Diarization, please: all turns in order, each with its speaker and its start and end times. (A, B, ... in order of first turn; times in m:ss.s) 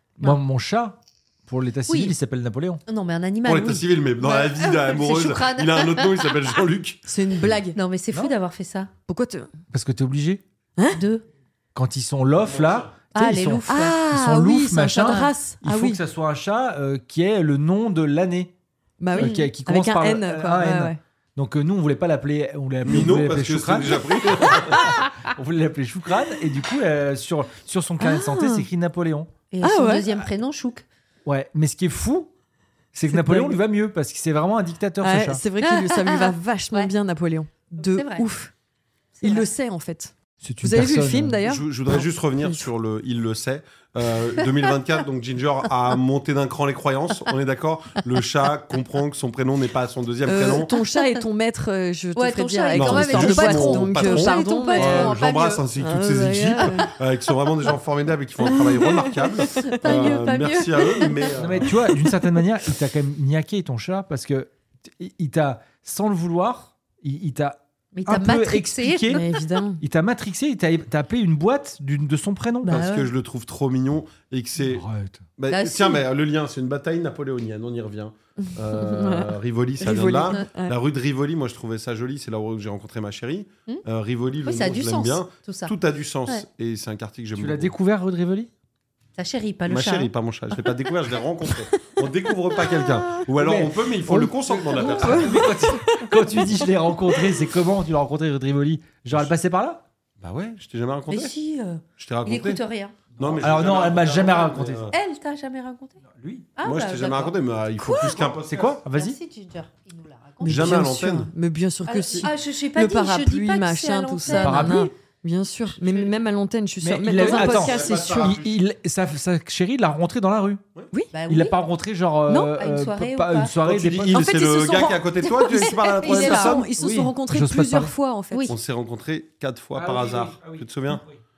0:00.2-0:02.8 A
0:01.9-0:02.1 B
0:02.9-0:06.4 B
0:03.4-0:07.0 C
0:07.1-0:07.8 D
0:07.7-0:08.9 B
0:09.1-0:09.5 D
0:09.7-0:10.4 A
0:10.9-0:11.2 B
0:11.8-0:18.5 A
0:12.4-0:12.9 C
0:13.1-0:14.0 B
0:13.7-0:16.0 D
0:19.0-0:21.0 D
0:19.1-0:29.3 A
0:19.2-0:19.5 B
0:22.8-0:24.8 C
0:28.0-0:28.7 D
0:29.5-0:30.9 B
0:29.6-0:30.1 D
0:31.3-0:32.3 A
0:32.9-0:35.4 A
0:33.2-0:33.6 D
0:35.0-0:38.5 D
0:35.6-0:36.9 B
0:37.8-0:38.3 B
0:39.2-0:39.5 B
0:39.2-0:42.6 D
0:40.4-0:41.4 A
0:41.4-0:50.7 C
0:50.3-0:56.9 D
0:52.2-0:55.6 B
0:52.7-1:01.8 C
0:56.6-0:56.9 B
0:58.6-0:59.9 D
0:59.4-1:01.4 B
1:01.4-1:09.2 A
1:08.0-1:09.2 B
1:09.1-1:09.8 D
1:09.8-1:12.8 A
1:12.6-1:13.1 B
1:12.7-1:27.7 C
1:14.6-1:15.3 A
1:15.5-1:16.0 B
1:18.4-1:20.8 D
1:24.4-1:25.7 B
1:27.4-1:28.5 A
1:29.2-1:30.1 B
1:29.7-1:35.4 C
1:33.3-1:39.8 A
1:34.8-1:35.2 B
1:34.8-1:36.3 D
1:40.2-1:41.3 C
1:41.1-1:43.0 B
1:42.0-1:42.6 C
1:43.1-1:44.8 A
1:43.2-1:45.0 C
1:44.9-1:46.0 B
1:46.2-1:46.5 A
1:46.6-1:48.3 B
1:46.6-1:48.8 C
1:48.4-1:49.2 A
1:48.9-1:51.1 B
1:50.4-1:51.3 C
1:50.4-1:50.9 A
1:50.5-1:58.4 D
1:51.8-1:54.8 B
1:54.3-1:54.9 A
1:56.8-2:00.6 A
1:57.2-1:58.6 C
2:01.1-2:01.6 B
2:01.3-2:04.2 A
2:02.3-2:02.5 D
2:02.5-2:03.5 B
2:03.6-2:06.7 C
2:04.1-2:08.5 D
2:05.5-2:06.5 B
2:06.6-2:07.9 A
2:08.5-2:11.0 C
2:09.8-2:11.2 A